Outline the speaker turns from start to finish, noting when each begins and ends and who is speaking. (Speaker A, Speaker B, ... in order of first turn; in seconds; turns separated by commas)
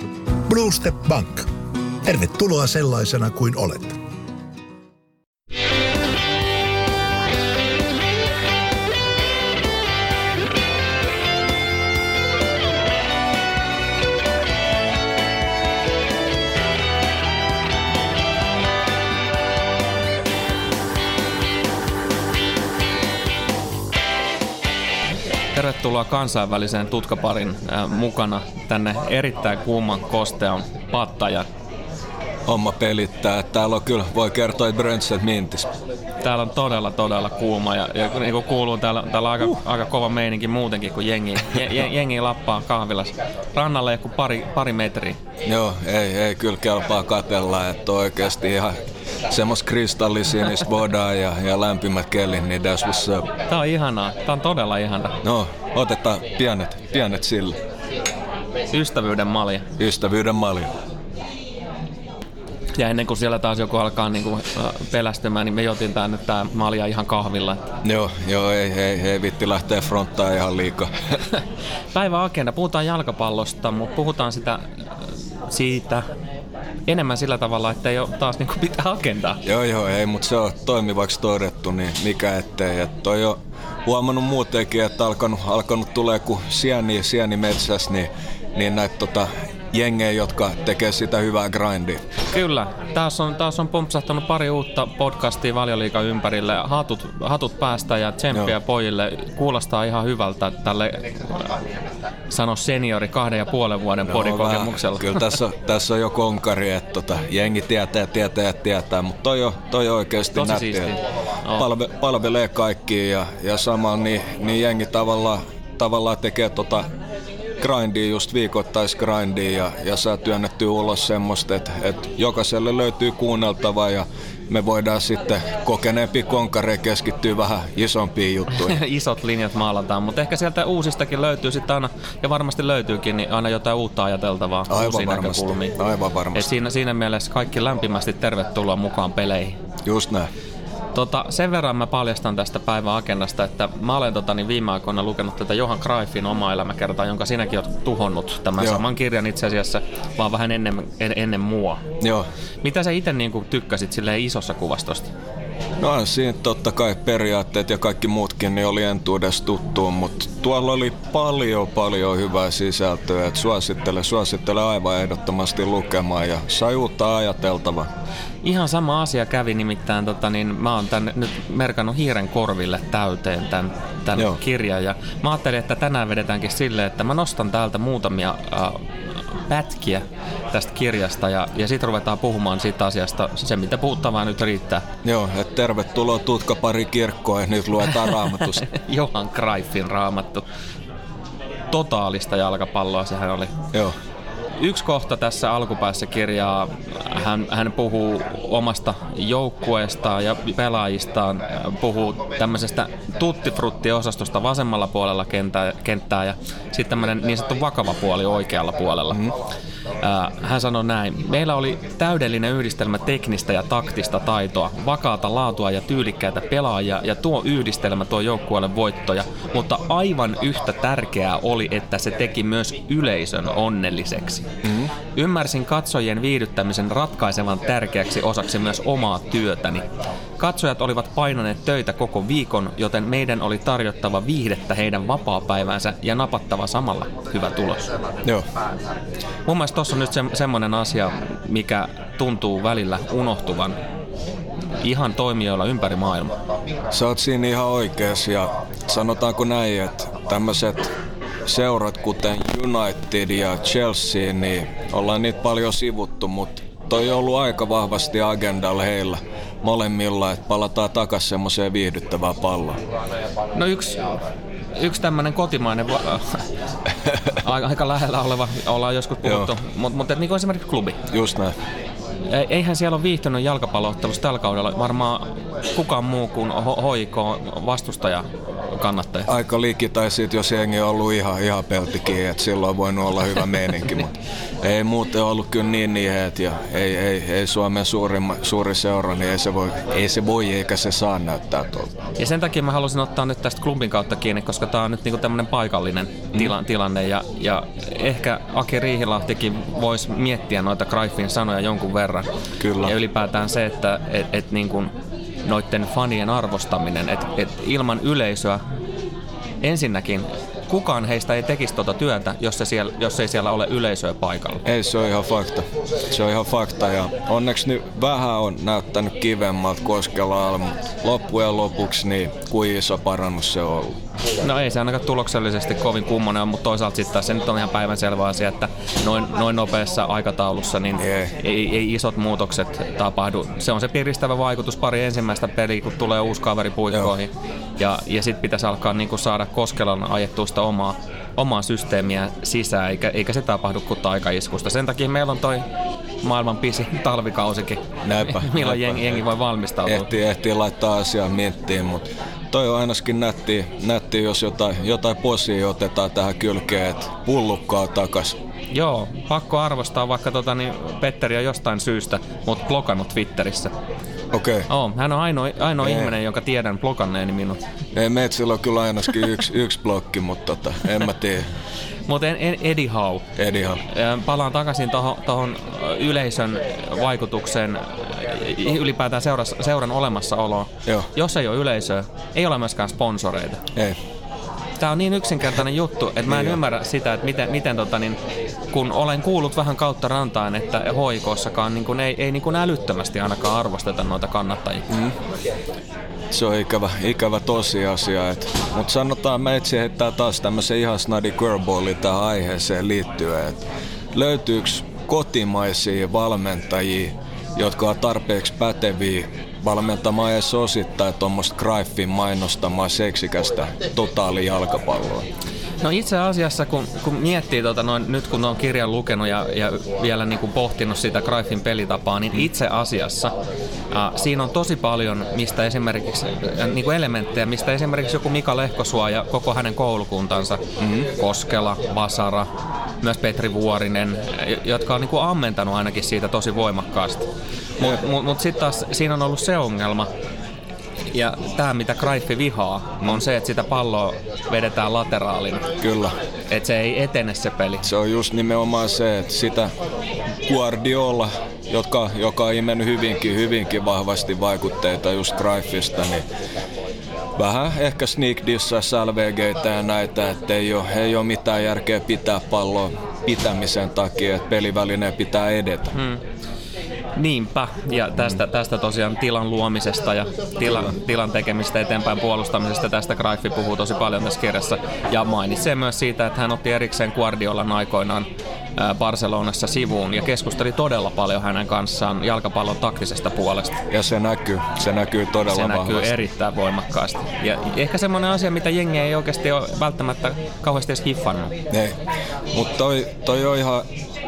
Speaker A: 0.4-1.5, Speaker A: 2.0-4.0, Speaker B: 25.5-31.5, Speaker C: 32.5-35.7, Speaker B: 36.2-45.2, Speaker C: 45.4-53.2, Speaker B: 53.5-55.2, Speaker C: 55.2-57.6, Speaker B: 58.7-59.7, Speaker C: 59.8-60.7, Speaker B: 62.7-67.6, Speaker C: 67.8-71.2, Speaker B: 71.9-74.6, Speaker B: 75.5-76.0, Speaker B: 76.9-79.4, Speaker C: 79.4-92.0, Speaker B: 92.3-101.6, Speaker B: 102.3-105.3, Speaker C: 104.0-110.9, Speaker B: 110.3-111.7, Speaker C: 111.5-116.9, Speaker C: 117.6-128.8, Speaker B: 128.5-135.8, Speaker C: 134.7-136.5, Speaker B: 136.3-139.6, Speaker C: 139.8-140.3, Speaker B: 140.9-151.8, Speaker C: 152.0-152.3, Speaker B: 152.6-155.1, Speaker C: 155.8-167.9, Speaker B: 168.4-184.8, Speaker C: 185.0-188.6, Speaker B: 188.6-190.4, Speaker B: 191.7-193.5, Speaker B: 194.6-209.3, Speaker B: 210.0-224.4, Speaker C: 224.6-224.9, Speaker B: 225.1-229.9, Speaker B: 230.4-237.8, Speaker B: 239.5-243.8, Speaker B: 244.8-246.3, Speaker C: 246.9-250.9, Speaker C: 251.4-262.8, Speaker B: 263.5-264.2, Speaker B: 264.8-266.4, Speaker B: 267.4-271.0, Speaker C: 269.2-269.5, Speaker C: 271.1-271.5, Speaker B: 272.3-279.3, Speaker C: 279.3-291.9, Speaker B: 292.2-304.9, Speaker C: 302.6-302.9, Speaker B: 305.4-308.6, Speaker B: 309.6-314.6, Speaker C: 314.6-324.0, Speaker B: 324.4-345.6, Speaker C: 331.0-331.3, Speaker B: 346.2-350.1, Speaker C: 348.0-349.2, Speaker C: 349.9-358.4, Speaker B: 358.7-363.7, Speaker C: 364.3-364.7, Speaker B: 364.7-367.6, Speaker C: 365.8-366.1, Speaker C: 367.9-371.5, Speaker B: 372.1-373.3, Speaker C: 373.4-373.8, Speaker B: 373.9-383.6, Speaker B: 384.8-388.2, Speaker C: 386.3-386.6, Speaker B: 388.7-394.8, Speaker C: 394.9-395.1, Speaker C: 396.3-415.3, Speaker B: 415.8-423.3, Speaker B: 423.9-430.6, Speaker C: 430.8-431.1, Speaker B: 431.1-432.5, Speaker B: 433.0-440.1, Speaker B: 441.1-445.7, Speaker C: 445.8-446.2, Speaker B: 446.5-447.8, Speaker C: 447.8-449.7, Speaker C: 450.4-456.2, Speaker C: 457.4-465.9, Speaker B: 465.9-466.2, Speaker B: 467.1-483.8, Speaker C: 483.9-486.1, Speaker B: 485.5-491.5, Speaker C: 491.7-492.0, Speaker C: 492.5-493.9